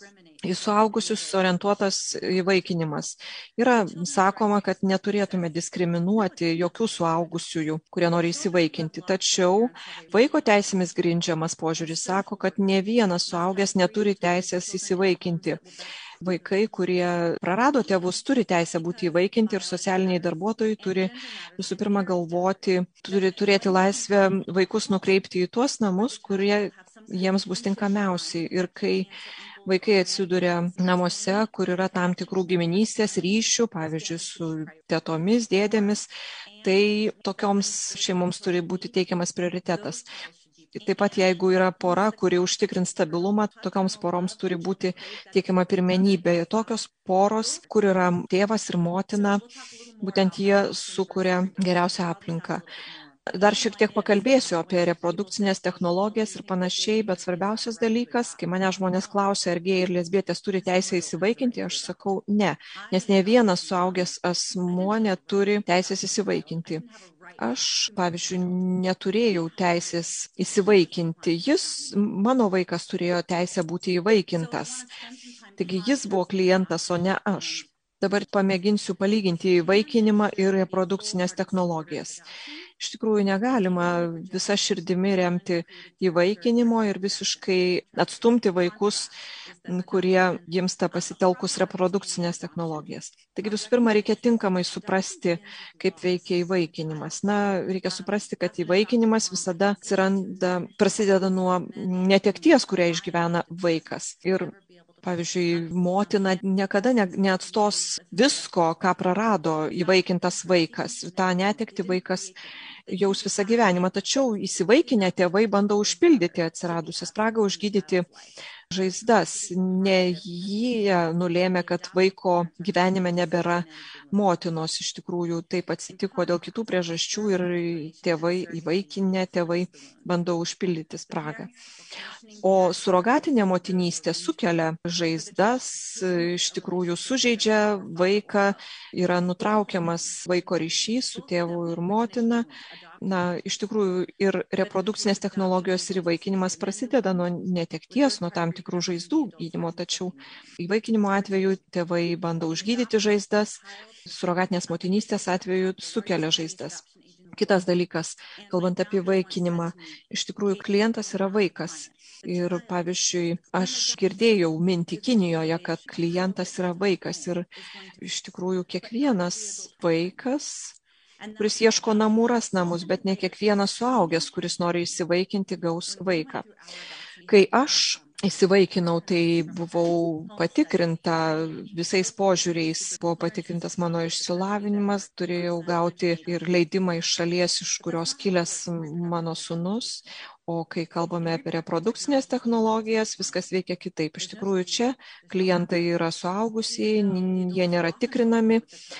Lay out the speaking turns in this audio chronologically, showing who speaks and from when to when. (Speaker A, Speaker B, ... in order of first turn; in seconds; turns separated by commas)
Speaker A: 0.4-15.6, Speaker A: 16.2-29.1, Speaker A: 29.6-36.1, Speaker A: 36.6-40.1, Speaker A: 40.7-49.4, Speaker A: 50.0-52.7, Speaker A: 53.3-66.9, Speaker A: 67.4-74.9, Speaker A: 75.6-82.2, Speaker A: 82.8-89.1, Speaker A: 89.7-112.3, Speaker A: 112.9-118.1, Speaker A: 118.7-131.5, Speaker A: 132.4-142.5, Speaker A: 143.0-170.7, Speaker A: 171.4-176.5, Speaker A: 177.3-198.6